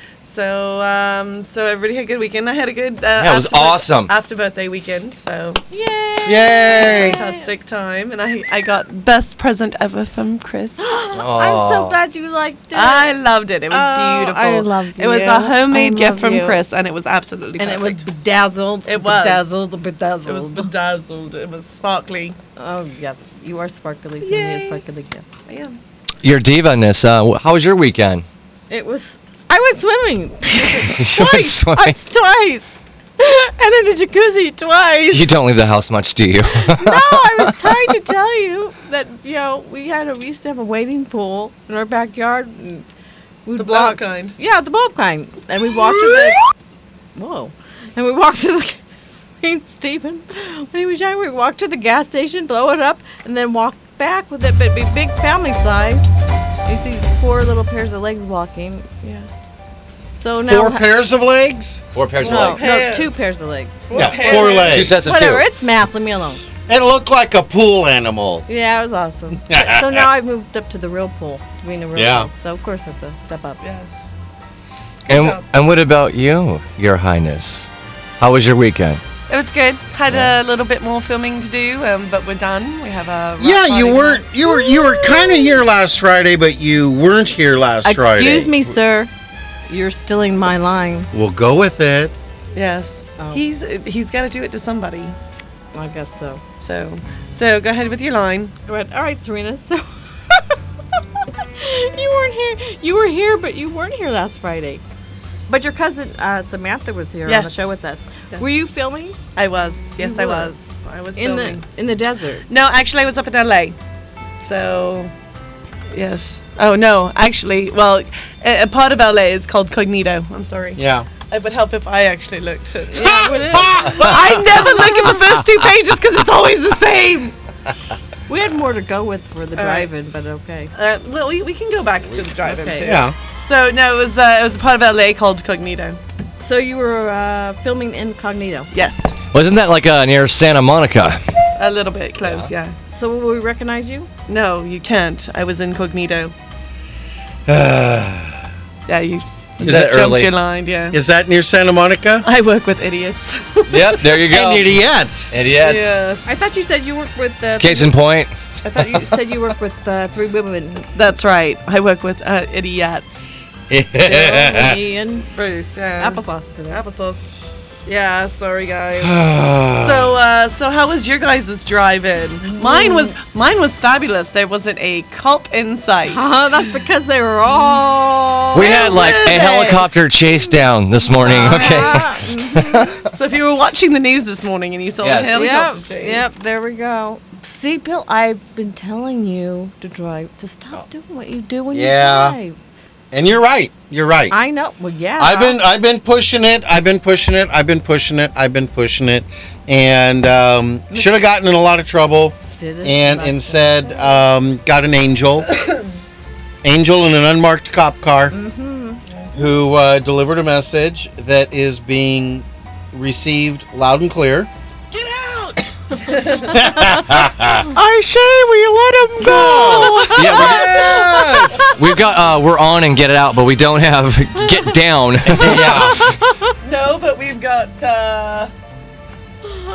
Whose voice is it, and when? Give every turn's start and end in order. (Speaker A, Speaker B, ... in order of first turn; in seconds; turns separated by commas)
Speaker A: 0.2-5.6, Speaker B: 3.2-4.1, Speaker C: 5.7-7.5, Speaker D: 6.2-7.2, Speaker A: 6.7-10.8, Speaker C: 10.8-13.2, Speaker B: 11.2-12.0, Speaker A: 12.7-18.1, Speaker C: 13.7-16.6, Speaker C: 17.6-20.7, Speaker A: 18.9-19.6, Speaker A: 20.3-22.4, Speaker C: 22.6-25.3, Speaker A: 24.2-24.8, Speaker A: 25.5-25.8, Speaker B: 26.2-28.2, Speaker C: 28.7-35.4, Speaker B: 30.9-32.0, Speaker B: 35.1-37.5, Speaker C: 36.6-42.9, Speaker C: 43.5-46.4, Speaker A: 43.6-44.4, Speaker C: 47.1-48.8, Speaker C: 49.4-59.3, Speaker C: 60.2-60.9, Speaker D: 60.4-61.8, Speaker B: 61.9-62.7, Speaker C: 62.2-66.4, Speaker A: 62.2-63.2, Speaker A: 63.9-64.9, Speaker D: 63.9-65.1, Speaker B: 64.7-65.5, Speaker D: 66.7-68.5, Speaker C: 68.5-73.6, Speaker D: 69.5-70.1, Speaker D: 72.0-72.3, Speaker A: 73.6-74.0, Speaker A: 75.1-75.5, Speaker B: 75.1-77.7, Speaker B: 78.2-79.0, Speaker A: 79.3-84.2, Speaker D: 83.4-88.6, Speaker C: 84.5-85.5, Speaker C: 87.8-89.1, Speaker C: 89.7-91.1, Speaker D: 91.1-92.2, Speaker A: 92.5-95.2, Speaker C: 93.2-93.4, Speaker C: 95.7-96.4, Speaker A: 96.6-98.5, Speaker C: 98.7-100.5, Speaker C: 101.6-104.8, Speaker C: 105.5-109.2, Speaker A: 107.3-107.7, Speaker A: 109.4-111.6, Speaker C: 110.0-110.5, Speaker C: 111.2-112.5, Speaker A: 112.5-113.8, Speaker A: 114.4-115.1, Speaker A: 115.9-127.3, Speaker D: 120.8-121.1, Speaker C: 122.9-124.1, Speaker D: 123.5-124.2, Speaker C: 124.7-125.1, Speaker C: 128.3-130.7, Speaker A: 129.6-129.9, Speaker A: 130.7-136.0, Speaker C: 132.4-133.0, Speaker D: 132.8-133.2, Speaker C: 136.4-138.7, Speaker A: 138.7-139.1, Speaker B: 139.3-141.2, Speaker A: 141.6-142.7, Speaker B: 142.2-142.5, Speaker C: 142.9-144.1, Speaker A: 144.3-146.3, Speaker D: 147.5-148.4, Speaker A: 148.9-151.0, Speaker B: 149.6-150.3, Speaker D: 150.9-152.3, Speaker A: 152.2-154.1, Speaker B: 153.7-154.8, Speaker D: 154.3-155.4, Speaker B: 155.3-156.0, Speaker A: 155.6-156.3, Speaker C: 156.3-158.0, Speaker B: 157.6-158.3, Speaker A: 158.6-159.1, Speaker C: 158.8-160.9, Speaker A: 160.9-163.4, Speaker D: 163.7-164.8, Speaker C: 164.0-166.8, Speaker A: 165.4-167.3, Speaker A: 167.9-169.2, Speaker D: 169.0-170.2, Speaker A: 169.8-176.3, Speaker C: 172.4-173.2, Speaker C: 176.1-179.9, Speaker B: 178.5-183.0, Speaker A: 178.6-179.7, Speaker A: 181.2-182.0, Speaker C: 181.2-183.0, Speaker A: 183.1-186.3, Speaker B: 185.0-185.6, Speaker C: 185.3-192.6, Speaker D: 191.7-192.4, Speaker D: 193.1-194.4, Speaker C: 194.3-195.6, Speaker D: 195.2-205.6, Speaker C: 200.9-201.2, Speaker C: 202.6-204.2, Speaker D: 206.6-208.3, Speaker C: 208.3-209.0, Speaker D: 209.3-214.5, Speaker A: 214.9-216.8, Speaker D: 216.5-217.7, Speaker A: 217.7-221.0, Speaker C: 219.2-221.6, Speaker D: 219.2-221.8, Speaker B: 220.1-220.8, Speaker B: 221.8-226.0, Speaker D: 225.3-226.1, Speaker C: 226.0-226.3, Speaker A: 226.6-228.5